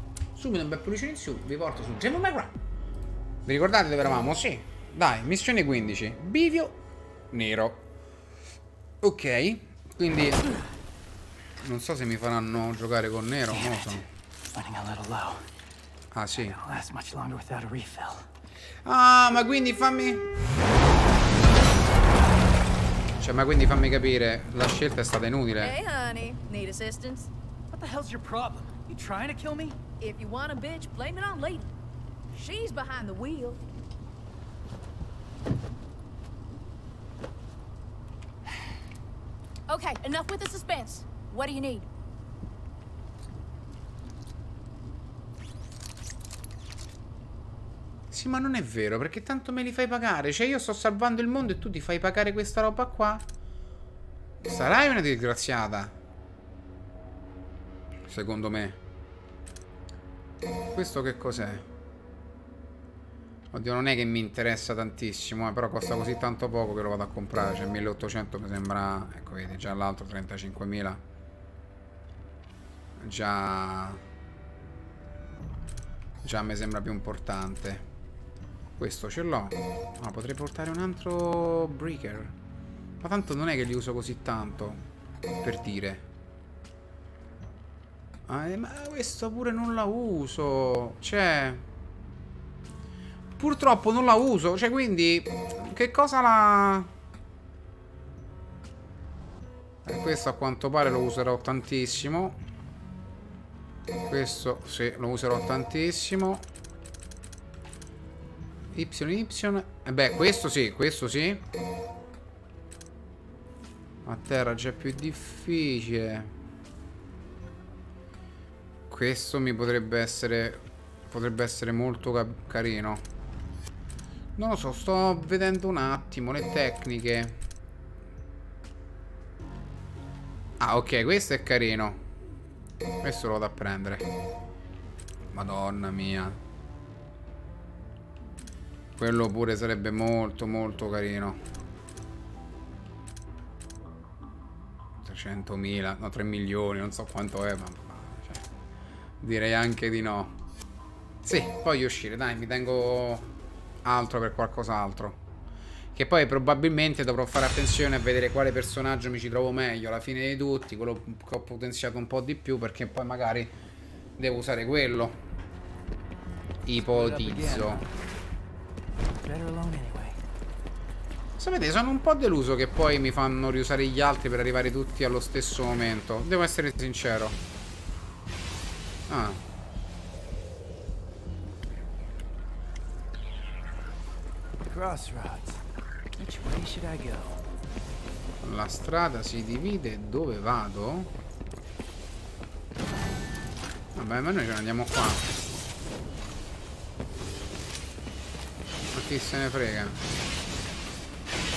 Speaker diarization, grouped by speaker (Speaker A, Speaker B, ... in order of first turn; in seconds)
Speaker A: 0.3-2.5, 3.4-6.8, 7.3-7.8, 9.0-10.4, 11.6-14.1, 16.1-16.6, 18.8-20.2, 23.2-25.7, 48.1-53.2, 54.4-55.9, 58.1-58.8, 60.7-61.6, 63.5-71.0, 73.0-74.0, 76.2-77.8, 78.8-82.3, 83.0-84.8, 85.4-86.0, 88.3-91.6, 93.4-96.9, 99.8-102.4, 104.0-106.5, 108.7-111.4, 114.0-116.3, 118.9-123.0, 124.3-127.4, 130.6-132.0, 133.0-134.1, 135.3-136.4, 139.0-141.4, 145.0-148.4, 149.2-150.4, 151.2-153.3, 153.8-155.2, 155.9-163.5, 164.2-165.2, 166.6-167.8, 171.4-177.4, 179.1-179.4, 188.4-191.1, 193.9-195.2, 198.9-200.0
Speaker B: 13.5-15.4, 16.4-18.2, 27.7-29.8, 166.7-167.9, 169.2-170.2, 184.6-185.6, 186.2-187.4
Speaker C: 25.6-27.3, 30.0-31.7, 32.3-33.6, 39.7-41.9